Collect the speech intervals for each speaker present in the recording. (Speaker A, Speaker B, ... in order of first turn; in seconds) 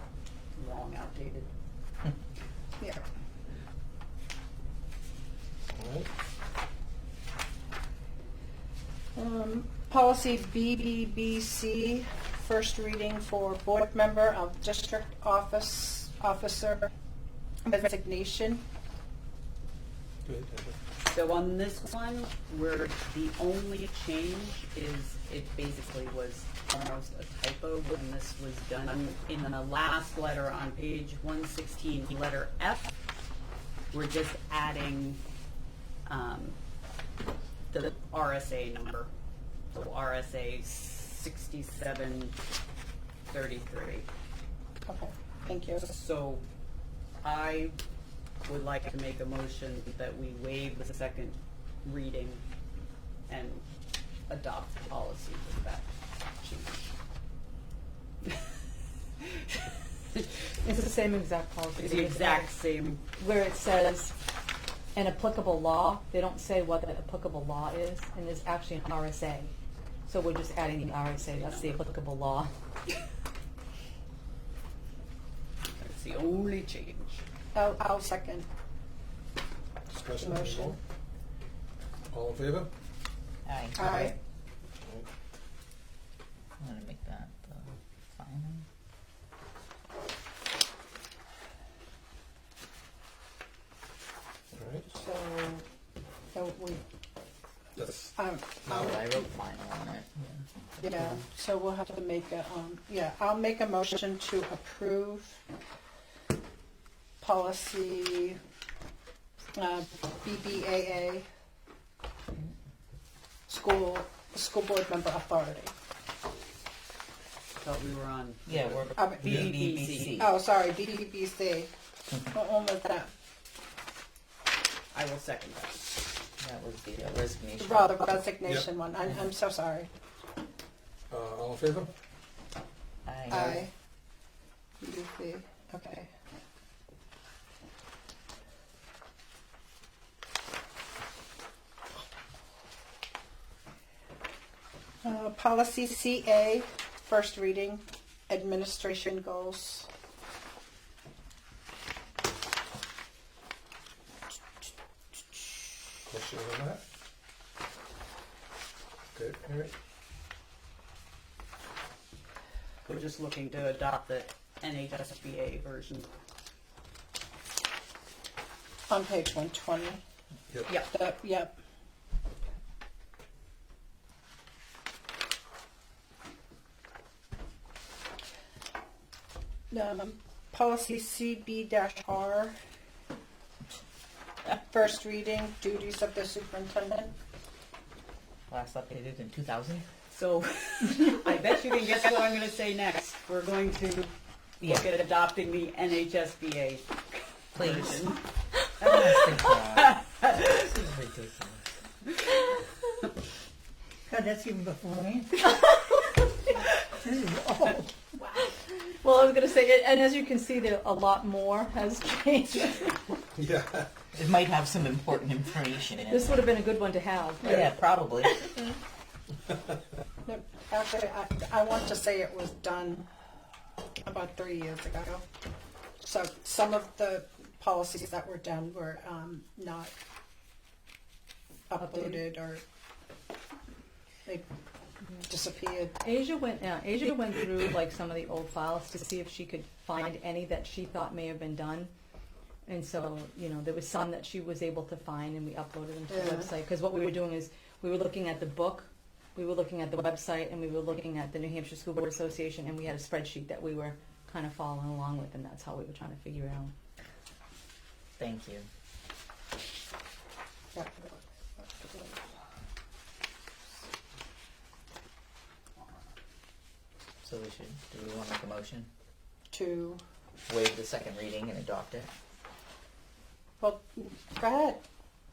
Speaker A: 0.6-1.5, 21.0-32.9, 33.9-35.2, 36.1-36.6, 37.7-39.1, 39.7-42.4, 43.3-44.1, 45.8-46.4, 47.2-47.8, 48.5-52.4, 53.3-53.6, 54.3-55.9, 56.4-56.8, 59.2-59.6, 61.8-63.0, 71.2-71.8, 75.7-77.2, 117.6-120.2, 124.9-125.9, 162.9-166.1, 170.7-170.9, 190.1-198.2, 198.8-200.3
Speaker B: 5.7-6.1, 20.2-20.8, 79.9-80.8, 82.1-82.7, 94.5-94.9, 97.8-98.1, 98.7-99.0, 131.1-131.9, 156.1-156.8, 159.1-159.7, 213.3-213.9
Speaker C: 9.1-16.9, 17.6-18.6, 44.9-45.8, 77.5-78.5, 80.2-80.8, 83.8-84.1, 94.9-95.6, 96.3-96.8, 98.1-99.0, 100.8-105.4, 107.2-108.4, 109.5-111.2, 113.5-115.7, 119.0-119.5, 120.2-123.1, 127.6-129.9, 133.3-133.7, 134.8-136.1, 145.0-149.9, 168.9-170.0, 170.9-171.5, 179.7-182.5, 184.5-187.1, 220.2-223.1, 224.0-225.2, 226.0-229.9, 231.7-232.6, 235.3-236.0, 246.1-246.5, 260.7-262.2, 269.5-270.0, 273.6-274.8
Speaker D: 60.6-62.5, 63.2-64.2, 64.9-69.5, 70.1-72.5, 205.4-206.2, 208.3-213.1, 216.1-217.7, 218.2-218.7, 231.8-232.2, 236.0-241.9, 242.7-256.7
Speaker E: 83.5-84.2, 86.6-88.6, 98.7-101.2, 118.5-120.3, 126.4-128.0, 133.1-133.7, 188.5-189.8, 194.6-194.9, 197.6-198.1, 198.8-201.7, 214.1-216.4, 217.4-218.5, 258.2-258.7, 267.2-268.9, 270.5-272.1
Speaker F: 204.1-205.4, 206.9-207.9